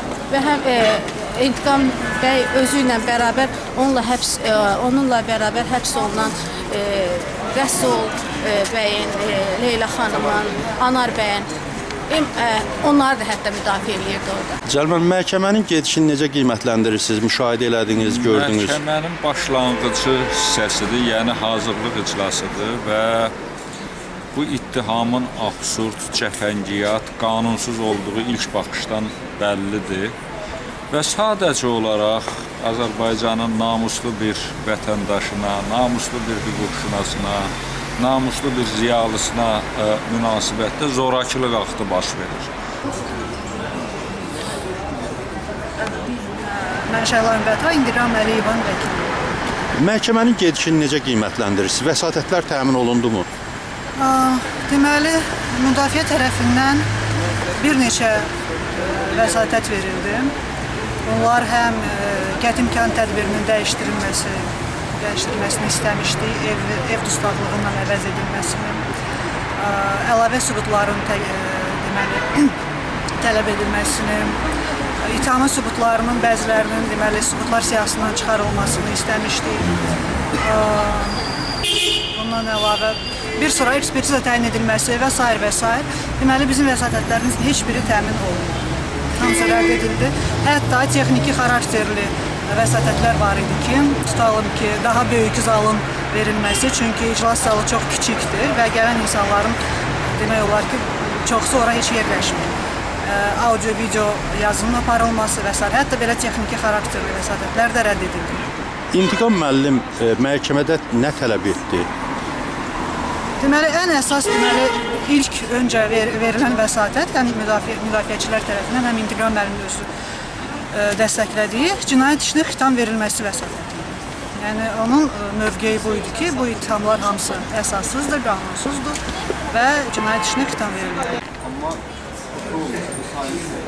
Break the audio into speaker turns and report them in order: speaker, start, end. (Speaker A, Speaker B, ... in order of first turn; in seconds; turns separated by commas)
Speaker A: 0.3-11.5, Speaker A: 12.1-14.6, Speaker B: 14.7-18.8, Speaker C: 18.0-23.3, Speaker C: 24.3-30.1, Speaker C: 30.9-42.5, Speaker D: 45.8-49.2, Speaker B: 49.8-53.2, Speaker D: 54.0-56.9, Speaker D: 57.6-60.3, Speaker D: 61.0-68.8, Speaker D: 69.6-72.6, Speaker D: 73.2-74.4, Speaker D: 75.0-79.7, Speaker D: 80.4-81.2, Speaker D: 82.1-99.6, Speaker D: 100.1-108.5, Speaker B: 108.9-111.9, Speaker D: 113.4-119.9, Speaker D: 120.7-129.0, Speaker D: 129.5-131.2